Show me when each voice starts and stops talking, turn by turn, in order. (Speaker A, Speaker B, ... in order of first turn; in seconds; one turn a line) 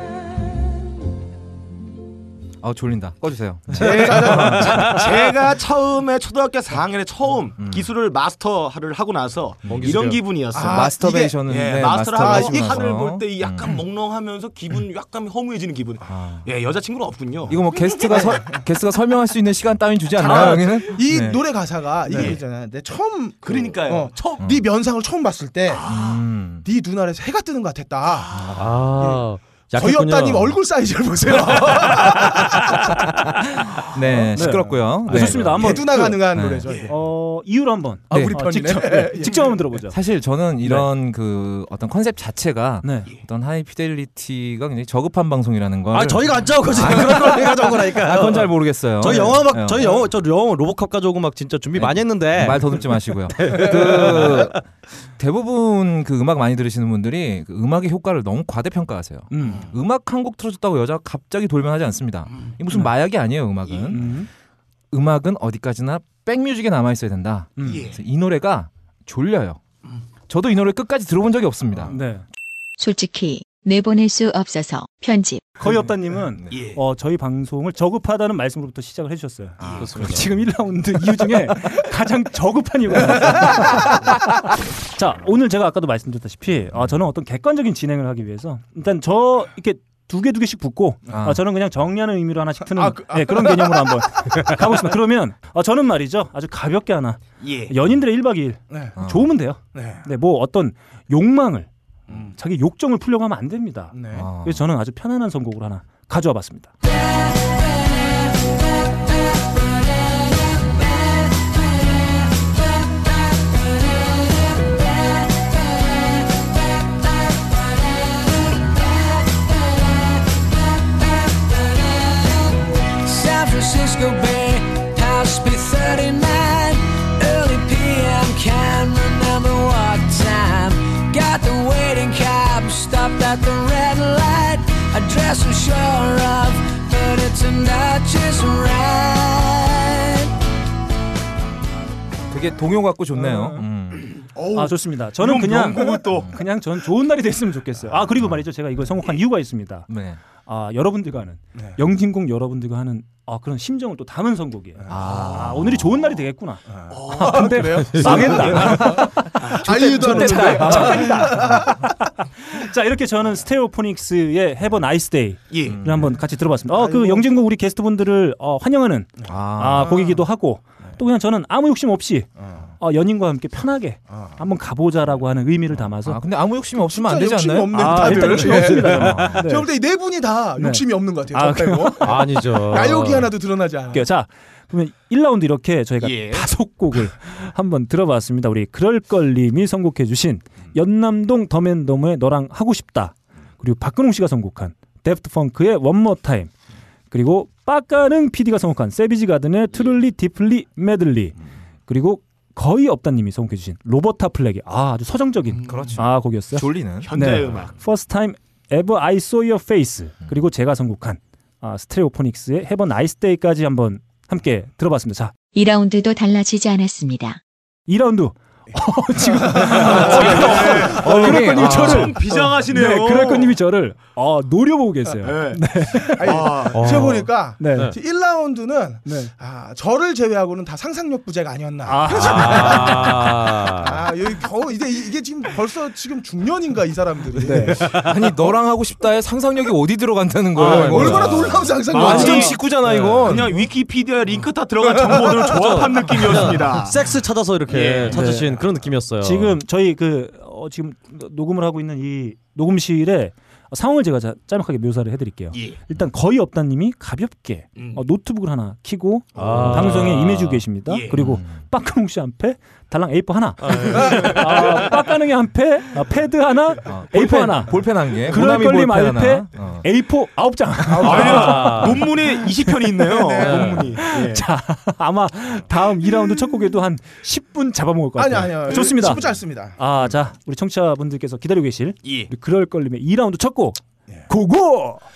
Speaker A: 2.6-4.9
Speaker B: 3.7-5.0
Speaker C: 3.7-5.3
Speaker D: 3.8-17.6
Speaker A: 7.6-7.9
Speaker C: 9.6-10.3
Speaker B: 10.5-11.5
Speaker A: 10.6-13.8
Speaker B: 12.1-12.8
Speaker A: 16.1-16.4
Speaker A: 17.5-21.5
Speaker B: 17.7-18.6
Speaker B: 20.1-26.0
Speaker D: 22.1-22.4
Speaker D: 23.4-24.5
Speaker D: 25.8-26.1
Speaker A: 25.8-26.6
Speaker B: 26.6-32.8
Speaker A: 28.3-28.7
Speaker C: 28.5-30.6
Speaker C: 31.9-32.9
Speaker A: 33.9-36.7
Speaker B: 34.0-37.0
Speaker E: 34.3-36.3
Speaker C: 35.1-35.5
Speaker E: 36.9-40.0
Speaker B: 38.1-39.6
Speaker A: 38.1-38.4
Speaker A: 39.9-50.0
Speaker E: 40.6-40.9
Speaker E: 42.8-43.1
Speaker C: 45.9-54.6
Speaker A: 51.7-54.6
Speaker A: 55.2-64.2
Speaker E: 59.3-59.7
Speaker D: 63.7-64.0
Speaker E: 63.9-64.3
Speaker A: 64.9-69.6
Speaker E: 67.6-67.9
Speaker D: 67.6-68.0
Speaker A: 70.3-72.0
Speaker E: 71.9-72.2
Speaker F: 72.8-75.5
Speaker E: 75.6-84.4
Speaker D: 76.5-76.8
Speaker D: 79.6-79.9
Speaker A: 79.6-80.3
Speaker C: 79.7-80.3
Speaker E: 85.0-101.7
Speaker A: 91.1-91.4
Speaker B: 92.7-94.0
Speaker D: 97.4-97.7
Speaker B: 98.7-99.0
Speaker A: 99.0-99.3
Speaker B: 99.7-100.0
Speaker E: 102.3-106.7
Speaker B: 103.9-104.3
Speaker A: 104.1-104.6
Speaker G: 114.9-115.8
Speaker G: 118.4-118.7
Speaker G: 119.3-120.1
Speaker G: 120.8-140.3
Speaker A: 142.3-144.2
Speaker E: 143.2-143.6
Speaker D: 144.1-146.4
Speaker E: 144.5-149.9
Speaker A: 149.9-150.2
Speaker E: 150.4-176.2
Speaker B: 154.8-155.1
Speaker A: 154.9-155.8
Speaker D: 155.1-155.6
Speaker B: 156.7-161.9
Speaker D: 156.9-157.4
Speaker A: 158.0-161.6
Speaker C: 158.2-158.7
Speaker D: 159.4-159.9
Speaker D: 165.5-165.8
Speaker A: 165.6-166.1
Speaker B: 166.7-167.3
Speaker A: 169.3-170.1
Speaker B: 172.4-172.7
Speaker A: 175.7-179.5
Speaker B: 176.8-184.1
Speaker E: 177.7-179.7
Speaker E: 180.6-182.2
Speaker C: 182.0-183.3
Speaker E: 183.9-196.5
Speaker D: 186.0-186.5
Speaker E: 197.1-215.3
Speaker A: 205.7-207.1
Speaker D: 205.7-205.9
Speaker D: 207.0-207.7
Speaker F: 215.5-217.4
Speaker E: 217.9-226.3
Speaker B: 219.3-220.4
Speaker D: 219.7-223.5
Speaker A: 220.9-222.2
Speaker D: 225.2-225.6
Speaker B: 226.1-238.0
Speaker D: 226.2-227.1
Speaker C: 226.7-227.9
Speaker E: 227.6-228.0
Speaker E: 229.1-229.3
Speaker E: 231.8-233.3
Speaker C: 232.1-234.1
Speaker E: 237.4-237.8
Speaker C: 237.8-238.1
Speaker A: 237.9-243.5
Speaker E: 240.5-242.5
Speaker B: 240.6-243.3
Speaker C: 241.1-241.5
Speaker D: 241.9-242.6
Speaker D: 243.2-247.1
Speaker B: 244.8-245.7
Speaker C: 245.4-249.6
Speaker D: 247.7-248.2
Speaker E: 248.1-248.6
Speaker E: 249.2-285.0
Speaker D: 255.5-255.8
Speaker D: 257.8-258.0
Speaker C: 259.3-260.7
Speaker D: 260.9-261.2
Speaker A: 261.1-261.5
Speaker C: 263.6-264.7
Speaker A: 266.8-269.9
Speaker B: 270.9-271.7
Speaker D: 271.0-274.4
Speaker C: 271.2-272.0
Speaker C: 273.4-274.0
Speaker B: 278.1-279.8
Speaker D: 278.7-279.0
Speaker D: 282.0-282.3